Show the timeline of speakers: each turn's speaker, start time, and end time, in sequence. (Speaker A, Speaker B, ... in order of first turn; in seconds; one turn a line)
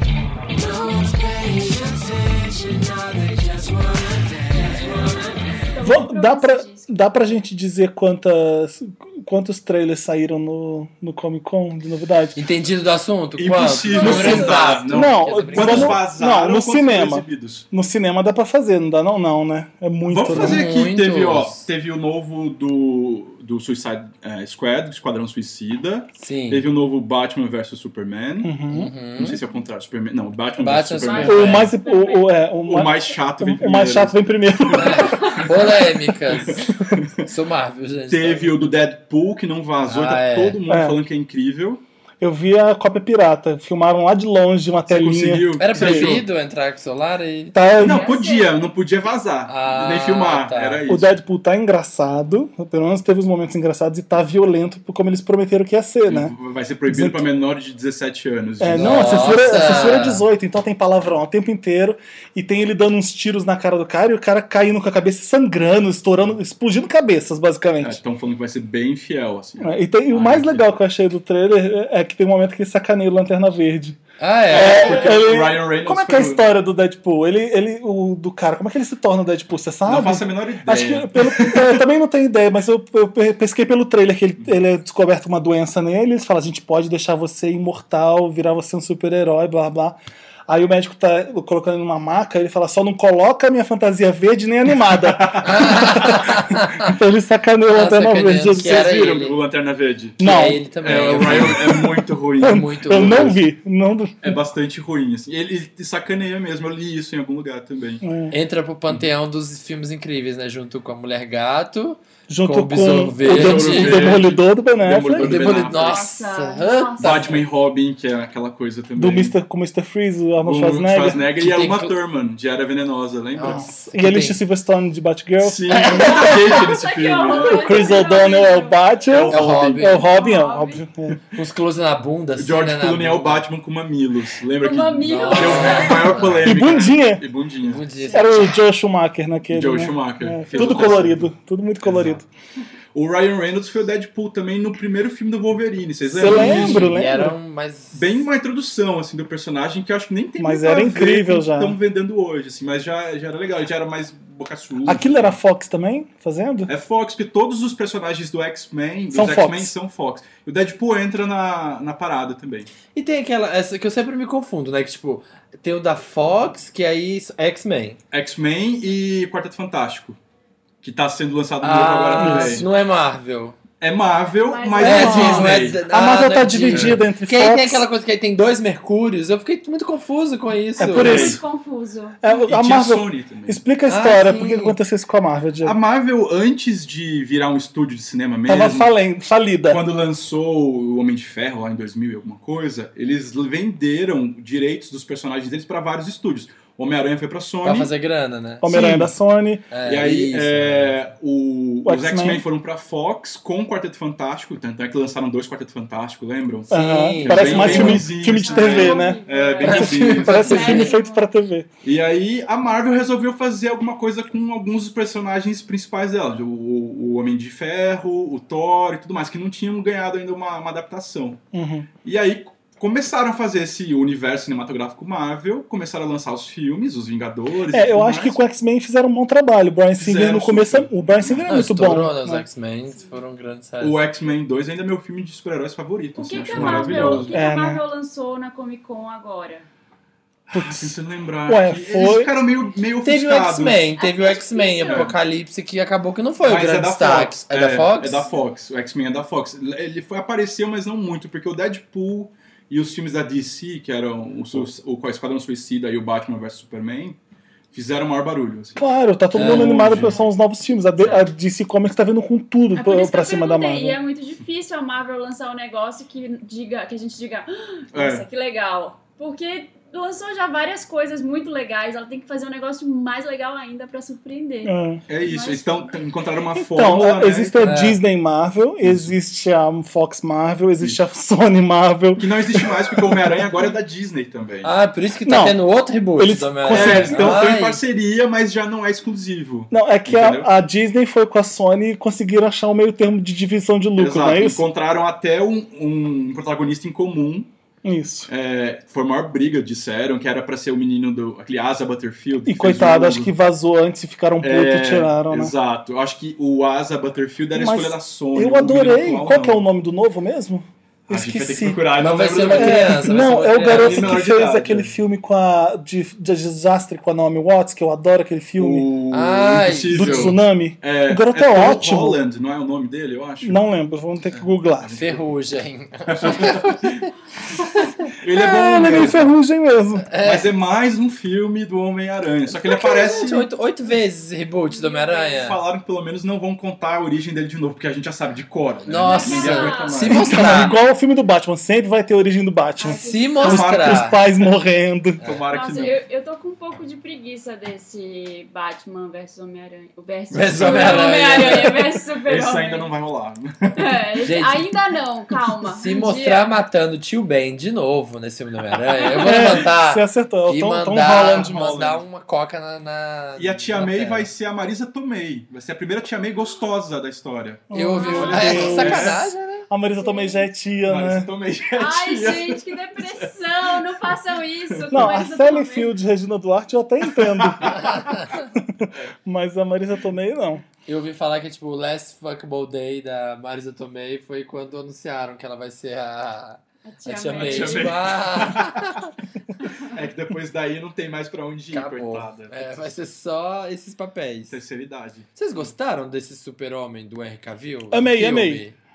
Speaker A: 0.5-5.4
Speaker B: 5.6-7.2
Speaker C: 5.8-12.4
Speaker A: 12.4-16.0
Speaker D: 13.4-17.7
Speaker B: 13.8-14.8
Speaker C: 14.0-20.6
Speaker D: 20.1-28.5
Speaker A: 20.3-21.7
Speaker A: 26.2-26.7
Speaker C: 28.4-28.9
Speaker A: 28.7-29.4
Speaker D: 29.1-31.7
Speaker A: 30.6-31.7
Speaker B: 31.0-32.5
Speaker C: 31.2-35.4
Speaker D: 32.7-35.4
Speaker A: 34.7-36.7
Speaker D: 36.3-37.3
Speaker C: 36.6-37.0
Speaker A: 37.2-38.5
Speaker D: 38.1-41.8
Speaker A: 39.9-40.6
Speaker C: 40.7-41.0
Speaker C: 42.2-46.2
Speaker D: 44.9-46.2
Speaker A: 45.6-47.6
Speaker C: 47.5-48.1
Speaker B: 47.8-48.6
Speaker D: 47.8-51.2
Speaker A: 49.5-50.9
Speaker C: 50.9-56.4
Speaker D: 56.1-59.8
Speaker C: 56.9-57.3
Speaker C: 58.6-68.0
Speaker A: 58.8-60.2
Speaker D: 67.8-70.8
Speaker C: 69.6-90.0
Speaker A: 74.2-75.2
Speaker D: 74.5-76.5
Speaker D: 79.9-81.8
Speaker C: 90.5-98.7
Speaker D: 95.0-95.7
Speaker A: 95.4-97.0
Speaker A: 97.7-99.4
Speaker D: 98.6-103.4
Speaker C: 100.2-104.4
Speaker A: 100.2-101.8
Speaker A: 102.4-103.4
Speaker D: 104.2-108.0
Speaker C: 108.0-108.3
Speaker A: 108.3-114.2
Speaker C: 112.3-115.3
Speaker D: 113.2-116.0
Speaker A: 115.1-117.4
Speaker B: 115.3-117.4
Speaker D: 117.0-119.4
Speaker C: 119.0-121.3
Speaker D: 120.4-123.7
Speaker A: 121.4-122.0
Speaker A: 123.3-124.4
Speaker C: 123.4-126.7
Speaker D: 125.4-128.0
Speaker B: 125.8-129.0
Speaker C: 127.4-131.2
Speaker D: 129.1-129.9
Speaker A: 129.3-130.2
Speaker B: 129.8-130.9
Speaker A: 131.3-133.5
Speaker D: 132.4-137.8
Speaker B: 134.6-136.3
Speaker A: 135.0-136.6
Speaker C: 136.4-137.2
Speaker A: 137.6-138.4
Speaker B: 137.9-138.3
Speaker C: 138.1-142.2
Speaker D: 139.5-141.3
Speaker D: 141.8-142.2
Speaker D: 142.9-147.1
Speaker C: 146.1-147.3
Speaker A: 146.2-148.3
Speaker D: 147.9-155.4
Speaker C: 150.4-151.8
Speaker C: 154.8-156.7
Speaker D: 156.7-162.7
Speaker C: 159.1-159.8
Speaker A: 162.9-168.0
Speaker D: 168.1-170.2
Speaker D: 170.8-172.7
Speaker A: 171.6-173.6
Speaker C: 172.2-172.7
Speaker D: 173.8-175.8
Speaker B: 174.4-175.6
Speaker A: 174.8-181.3
Speaker C: 174.8-177.9
Speaker D: 176.7-177.0
Speaker C: 180.8-181.4
Speaker B: 180.8-182.5
Speaker D: 180.9-181.4
Speaker C: 182.2-185.8
Speaker D: 182.5-183.6
Speaker A: 183.9-184.8
Speaker D: 185.6-188.9
Speaker C: 188.5-189.8
Speaker D: 189.7-197.9
Speaker A: 197.6-199.1
Speaker C: 198.6-199.7
Speaker D: 198.7-199.1
Speaker A: 199.7-201.0
Speaker D: 199.8-210.9
Speaker C: 201.8-202.4
Speaker C: 206.7-211.7
Speaker A: 206.7-208.1
Speaker B: 207.5-211.3
Speaker A: 209.6-211.0
Speaker D: 211.8-221.4
Speaker C: 221.5-221.9
Speaker D: 222.0-228.4
Speaker C: 227.7-232.4
Speaker D: 230.0-231.5
Speaker A: 231.5-234.0
Speaker B: 232.9-233.2
Speaker D: 233.8-237.3
Speaker B: 236.2-239.7
Speaker A: 236.4-237.3
Speaker C: 237.3-237.8
Speaker D: 240.5-243.9
Speaker C: 240.5-242.3
Speaker A: 243.0-248.3
Speaker B: 244.0-245.1
Speaker D: 244.8-245.2
Speaker D: 246.4-257.2
Speaker D: 257.7-258.8
Speaker C: 258.8-264.0
Speaker D: 259.3-260.2
Speaker A: 259.3-259.9
Speaker B: 260.0-260.3
Speaker B: 261.0-261.3
Speaker B: 262.7-276.0
Speaker D: 267.9-268.2
Speaker C: 274.6-275.0
Speaker D: 275.1-277.8
Speaker C: 276.7-283.7
Speaker A: 277.6-278.0
Speaker D: 278.8-279.1
Speaker D: 282.2-284.7
Speaker A: 284.6-287.8
Speaker C: 285.3-285.6
Speaker C: 286.2-287.4
Speaker D: 286.7-290.5
Speaker C: 289.7-294.6
Speaker D: 294.0-297.5
Speaker C: 297.8-298.3
Speaker D: 298.3-303.3
Speaker C: 302.5-305.5
Speaker D: 304.4-309.7
Speaker C: 307.5-318.9
Speaker D: 311.1-314.9
Speaker A: 312.0-314.2
Speaker D: 318.6-323.6
Speaker A: 319.1-320.4
Speaker C: 319.9-322.2
Speaker C: 323.4-325.0
Speaker D: 324.3-325.2
Speaker A: 324.9-327.1
Speaker D: 326.1-327.1
Speaker D: 327.6-329.3
Speaker C: 328.3-330.1
Speaker A: 330.1-330.5
Speaker D: 330.2-333.5
Speaker A: 332.5-335.6
Speaker B: 334.7-335.6
Speaker D: 335.4-340.5
Speaker A: 338.9-340.8
Speaker B: 339.0-340.3
Speaker C: 340.1-345.2
Speaker B: 342.8-343.8
Speaker A: 343.1-344.2
Speaker D: 343.4-344.2
Speaker A: 345.2-345.5
Speaker D: 345.2-346.0
Speaker B: 345.5-352.9
Speaker A: 350.3-351.8
Speaker D: 350.5-351.7
Speaker D: 352.2-354.0
Speaker B: 353.7-356.6
Speaker A: 354.2-354.7
Speaker A: 355.7-364.3
Speaker C: 359.2-361.6
Speaker D: 361.0-362.0
Speaker D: 363.4-369.2
Speaker C: 367.7-371.3
Speaker A: 367.7-369.7
Speaker B: 367.9-369.0
Speaker B: 370.0-370.5
Speaker D: 370.9-373.8
Speaker B: 371.7-375.9
Speaker D: 374.7-375.1
Speaker C: 374.9-377.9
Speaker D: 377.4-378.2
Speaker A: 377.7-378.3
Speaker C: 378.6-380.6
Speaker A: 380.9-389.1
Speaker B: 386.9-388.0
Speaker D: 387.4-388.9
Speaker B: 389.6-389.9
Speaker D: 389.9-392.9
Speaker A: 391.7-394.6
Speaker D: 394.5-395.7
Speaker A: 395.4-398.8
Speaker C: 397.9-398.6